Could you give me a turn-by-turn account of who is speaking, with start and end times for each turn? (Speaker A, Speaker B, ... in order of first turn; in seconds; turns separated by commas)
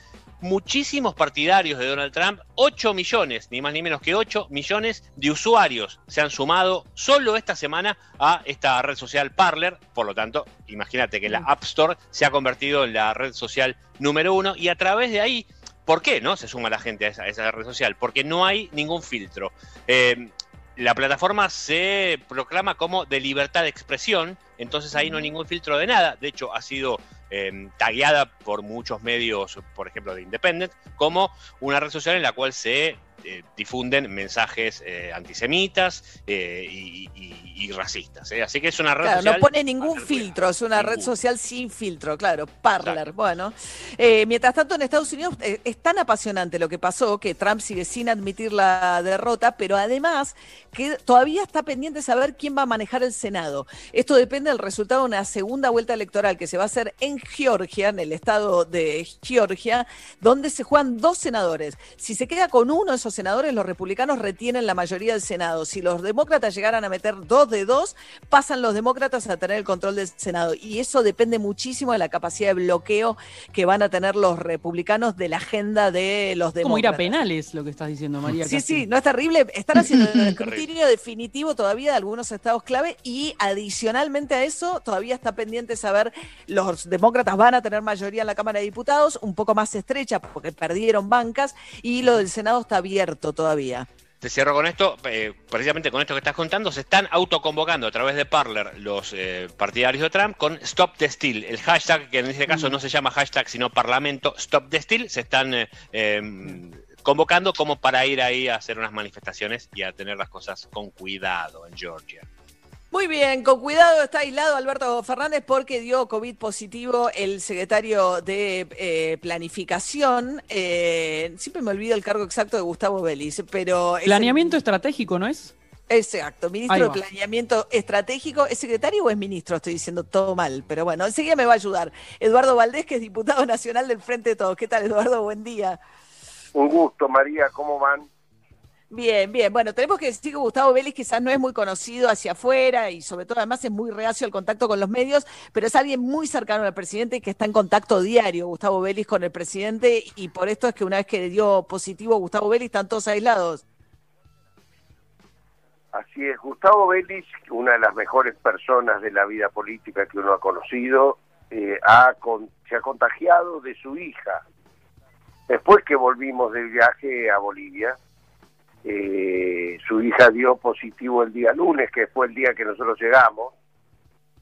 Speaker A: 0.4-41.1, Speaker B: 39.0-77.1, Speaker C: 76.6-78.9, Speaker B: 78.4-93.9, Speaker A: 80.4-80.7, Speaker A: 94.2-112.3, Speaker B: 112.9-124.6, Speaker C: 124.0-125.5, Speaker B: 125.9-135.8, Speaker C: 126.7-127.0, Speaker D: 136.6-138.1, Speaker B: 138.9-153.6, Speaker D: 155.9-164.4, Speaker D: 165.5-168.0, Speaker D: 168.8-173.5